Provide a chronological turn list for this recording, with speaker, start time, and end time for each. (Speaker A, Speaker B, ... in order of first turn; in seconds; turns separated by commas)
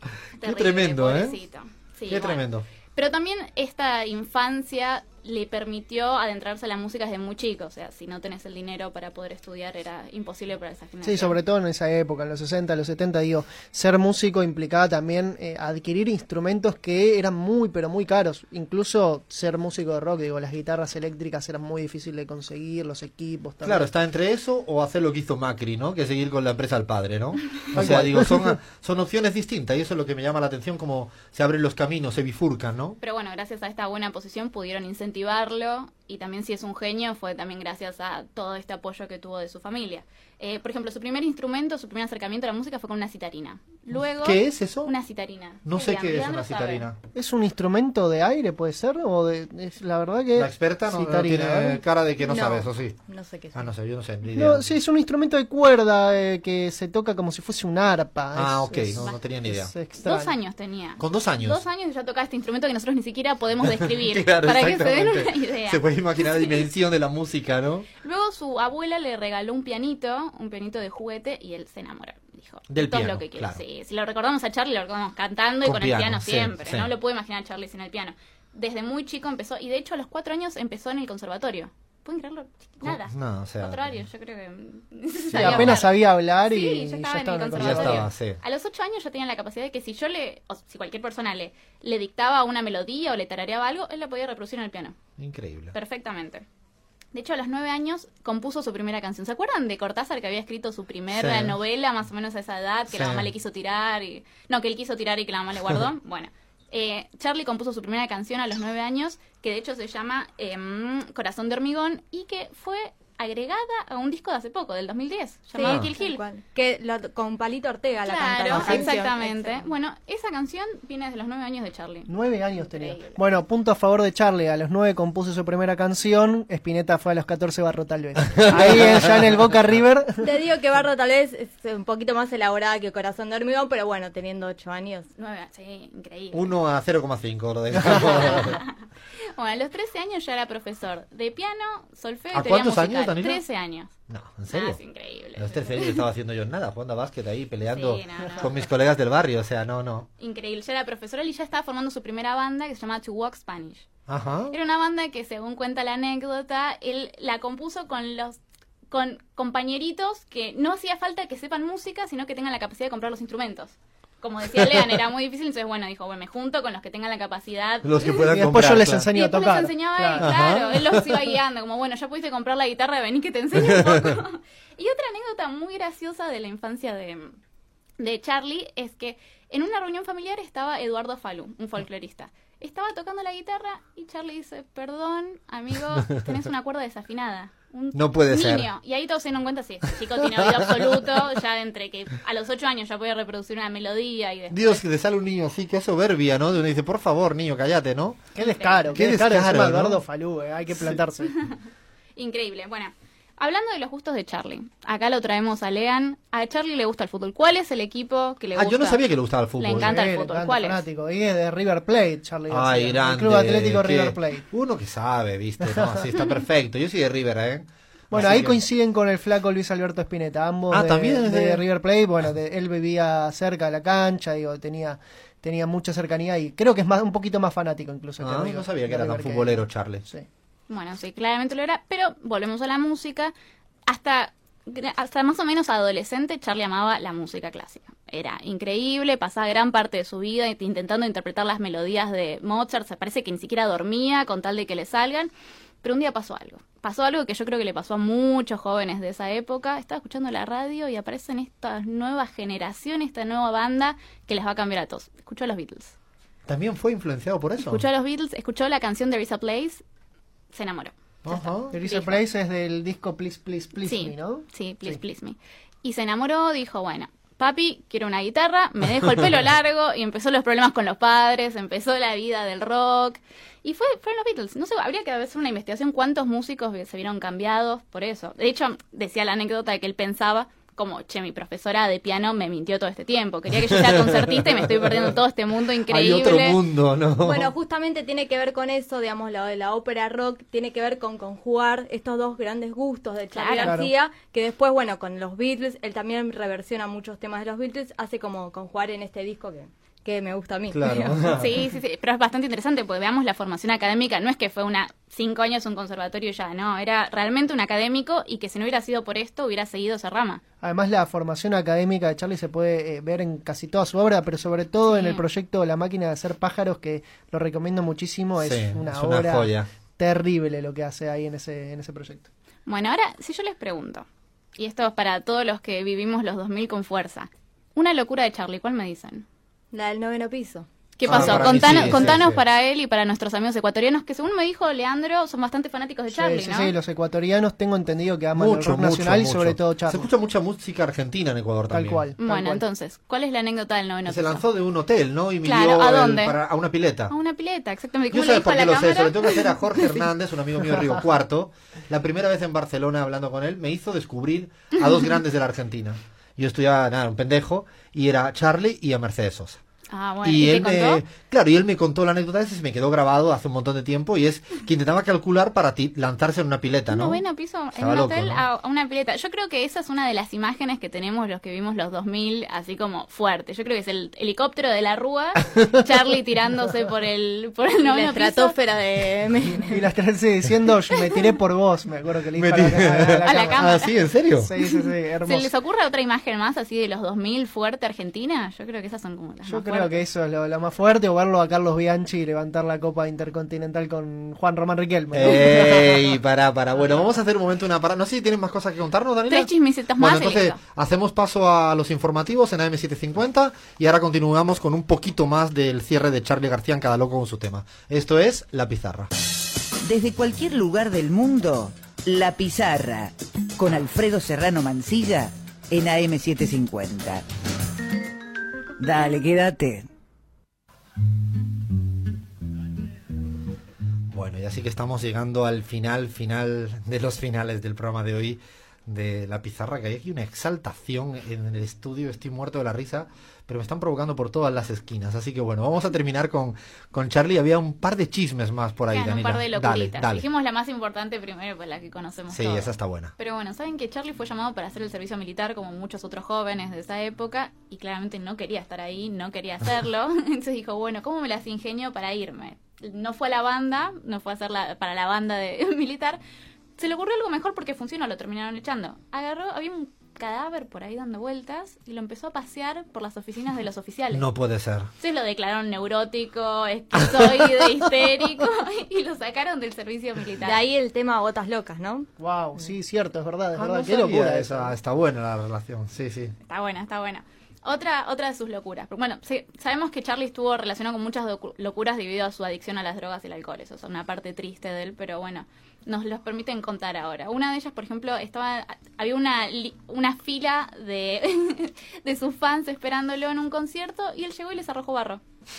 Speaker A: 0.3-11.3, Speaker B: 0.4-1.4, Speaker B: 2.1-2.6, Speaker C: 11.0-23.9, Speaker B: 23.6-33.0, Speaker C: 27.7-28.5, Speaker A: 33.0-46.9, Speaker B: 44.2-44.9, Speaker B: 45.6-47.0, Speaker C: 47.1-51.8, Speaker B: 50.4-53.0, Speaker D: 52.2-53.7, Speaker B: 53.5-54.7, Speaker C: 54.3-60.3, Speaker B: 58.3-59.7, Speaker A: 60.0-66.6, Speaker B: 61.0-61.6, Speaker B: 63.6-67.9, Speaker A: 68.0-95.0, Speaker B: 72.7-73.6, Speaker B: 75.6-76.9, Speaker B: 82.8-83.9, Speaker C: 85.3-88.1, Speaker B: 85.3-85.8, Speaker B: 87.5-88.4, Speaker B: 95.2-95.7, Speaker A: 95.7-96.4, Speaker A: 97.1-116.2, Speaker B: 101.1-101.6, Speaker B: 102.9-103.3, Speaker D: 115.5-119.6, Speaker B: 115.6-115.9, Speaker A: 118.0-123.2, Speaker C: 118.5-118.9, Speaker C: 122.1-130.3, Speaker B: 128.4-128.8, Speaker D: 130.2-135.1, Speaker A: 135.2-136.5, Speaker B: 136.3-138.6, Speaker C: 137.7-138.1, Speaker A: 137.8-138.8, Speaker A: 139.3-143.9, Speaker B: 142.3-143.4, Speaker B: 144.1-144.8, Speaker A: 144.5-146.1, Speaker B: 145.3-150.1, Speaker A: 147.7-148.5, Speaker A: 150.2-153.8, Speaker B: 154.1-154.5, Speaker A: 154.5-158.4, Speaker A: 158.9-168.3, Speaker B: 167.8-169.1, Speaker C: 168.3-170.3, Speaker A: 169.1-177.3, Speaker B: 170.2-171.1, Speaker B: 173.7-174.1, Speaker A: 178.0-194.8, Speaker B: 187.9-188.7, Speaker B: 190.4-190.8, Speaker B: 194.5-198.2, Speaker C: 198.3-201.4, Speaker A: 198.4-198.9, Speaker B: 198.9-200.0, Speaker A: 202.2-209.1, Speaker B: 208.6-210.0, Speaker A: 209.6-210.8, Speaker C: 209.7-214.5, Speaker B: 212.5-218.6, Speaker C: 215.7-216.1, Speaker C: 218.1-230.3, Speaker B: 220.7-221.6, Speaker B: 228.2-230.0, Speaker A: 230.7-233.3, Speaker A: 233.9-245.3, Speaker A: 245.8-255.9, Speaker B: 256.5-257.8, Speaker A: 257.6-259.8, Speaker A: 260.5-262.2, Speaker B: 261.2-261.7, Speaker C: 261.7-265.0, Speaker A: 263.9-286.6, Speaker B: 283.9-284.3, Speaker B: 285.9-287.5, Speaker D: 287.2-301.3, Speaker A: 293.3-293.8, Speaker C: 293.6-293.9, Speaker B: 300.7-301.5, Speaker A: 301.3-310.4, Speaker C: 310.6-322.3, Speaker A: 314.9-315.2, Speaker B: 318.4-319.6, Speaker A: 322.6-324.0, Speaker A: 324.6-329.2, Speaker D: 329.7-331.6, Speaker A: 331.0-336.7, Speaker B: 331.1-332.4, Speaker C: 331.4-332.1, Speaker C: 336.1-340.1, Speaker B: 338.3-342.0, Speaker C: 341.7-342.6, Speaker A: 342.2-344.4, Speaker B: 344.1-347.1, Speaker A: 345.4-346.4, Speaker A: 347.1-350.0, Speaker B: 348.1-359.6, Speaker A: 359.9-361.0, Speaker B: 360.2-367.2, Speaker A: 366.9-378.6, Speaker B: 367.7-368.4, Speaker D: 377.8-379.9, Speaker C: 379.7-383.7, Speaker A: 380.9-381.4, Speaker B: 382.4-384.5, Speaker A: 383.2-390.0, Speaker C: 384.3-385.5, Speaker C: 389.4-396.1, Speaker B: 395.1-409.1, Speaker A: 399.3-400.6, Speaker E: 409.8-417.2, Speaker E: 418.8-419.9, Speaker B: 424.1-440.3, Speaker A: 438.9-456.2, Speaker B: 442.3-443.1, Speaker A: 456.8-464.2, Speaker B: 464.1-464.9, Speaker A: 465.0-470.6, Speaker D: 470.4-472.1, Speaker C: 472.2-474.7, Speaker B: 473.6-476.3, Speaker A: 476.4-495.2